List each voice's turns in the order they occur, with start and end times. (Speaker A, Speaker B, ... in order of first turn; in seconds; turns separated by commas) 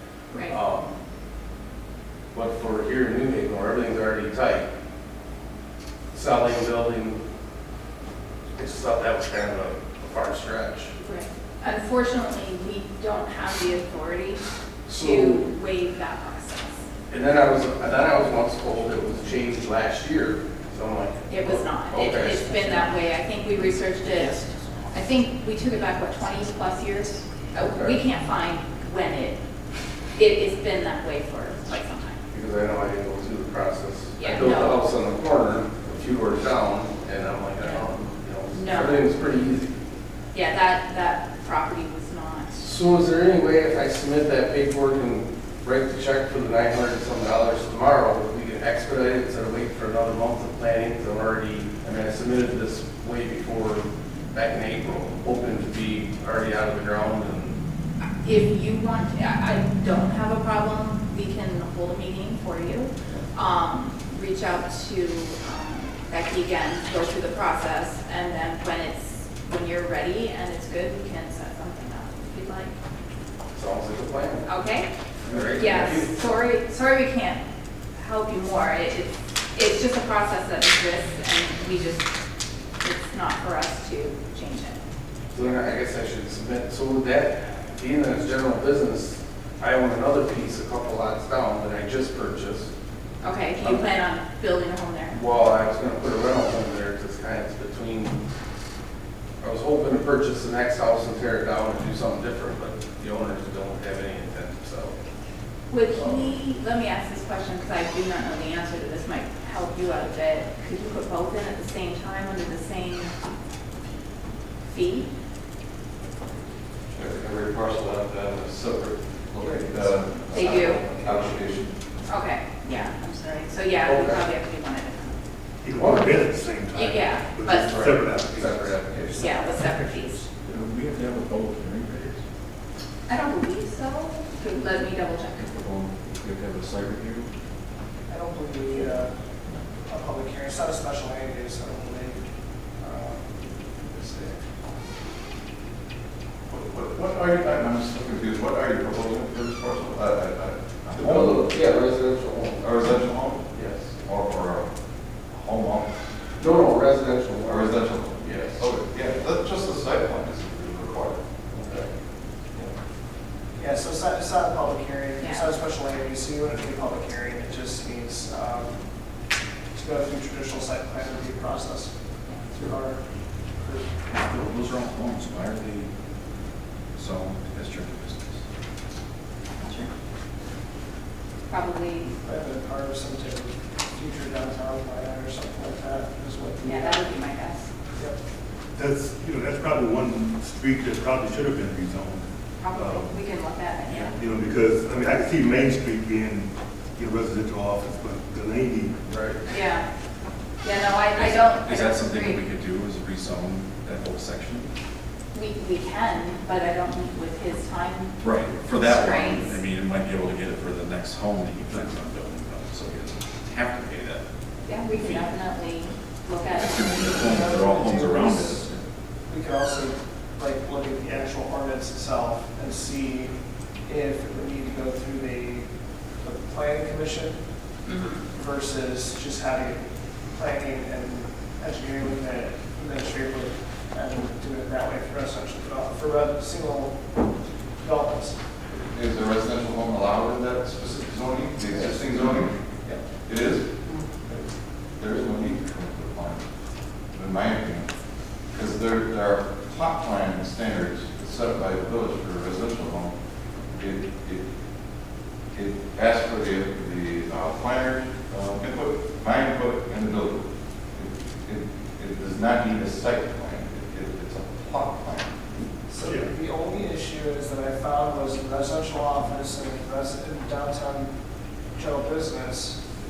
Speaker A: 0.3-0.6, Speaker B: 0.5-0.9, Speaker B: 2.3-4.7, Speaker B: 6.1-7.2, Speaker B: 8.6-10.9, Speaker A: 11.0-16.9, Speaker B: 14.9-15.4, Speaker B: 17.1-22.9, Speaker A: 21.3-29.4, Speaker B: 27.6-28.0, Speaker A: 30.1-32.2, Speaker B: 32.3-39.7, Speaker A: 34.2-34.8, Speaker A: 37.6-37.9, Speaker A: 38.5-39.1, Speaker A: 40.3-42.6, Speaker B: 42.6-57.6, Speaker A: 58.2-72.7, Speaker B: 73.5-74.5, Speaker A: 74.5-74.9, Speaker B: 75.2-76.1, Speaker A: 75.5-77.4, Speaker A: 77.9-82.2, Speaker A: 82.8-84.8, Speaker B: 85.3-92.7, Speaker A: 93.2-95.2, Speaker B: 93.6-93.9, Speaker B: 95.1-98.2, Speaker B: 99.4-104.9, Speaker A: 105.7-113.1, Speaker B: 105.9-106.4, Speaker A: 114.7-115.1, Speaker C: 116.9-121.8, Speaker A: 120.3-120.8, Speaker A: 122.1-125.2, Speaker B: 123.8-124.2, Speaker D: 125.6-129.2, Speaker B: 125.7-126.2, Speaker A: 126.7-127.7, Speaker B: 127.5-129.4, Speaker A: 129.1-130.3, Speaker E: 130.4-132.2, Speaker A: 133.1-135.5, Speaker E: 135.7-137.3, Speaker F: 138.1-139.1, Speaker F: 139.8-142.2, Speaker F: 142.8-144.4, Speaker C: 146.5-151.6, Speaker B: 150.9-152.7, Speaker C: 152.6-154.7, Speaker B: 153.5-153.9, Speaker C: 155.3-155.9, Speaker B: 156.4-158.6, Speaker C: 157.5-161.2, Speaker B: 161.5-161.9, Speaker F: 163.6-168.8, Speaker A: 165.2-165.5, Speaker F: 169.7-171.9, Speaker F: 172.5-173.0, Speaker F: 173.6-173.9, Speaker E: 174.1-175.9, Speaker E: 177.0-178.4, Speaker A: 179.6-179.9, Speaker A: 181.5-182.2, Speaker F: 182.2-187.1, Speaker A: 186.6-187.7, Speaker D: 188.8-193.1, Speaker A: 192.6-194.2, Speaker D: 194.1-198.9, Speaker B: 199.1-199.4, Speaker A: 199.5-199.9, Speaker A: 200.6-202.4, Speaker E: 201.2-204.7, Speaker A: 205.3-209.6, Speaker E: 208.2-214.2, Speaker A: 214.6-217.2, Speaker E: 214.9-215.3, Speaker E: 216.5-218.7, Speaker F: 216.9-218.8, Speaker F: 219.3-223.3, Speaker F: 223.8-225.7, Speaker F: 226.2-227.3, Speaker A: 227.8-228.2, Speaker F: 228.2-229.8, Speaker F: 230.3-237.0, Speaker F: 237.8-238.4, Speaker C: 238.9-242.6, Speaker F: 241.7-243.0, Speaker C: 243.2-243.7, Speaker C: 245.0-246.4, Speaker C: 247.1-247.9, Speaker C: 248.5-253.1, Speaker C: 253.7-254.4, Speaker C: 255.5-260.4, Speaker C: 260.9-265.3, Speaker F: 265.9-271.1, Speaker F: 271.7-272.8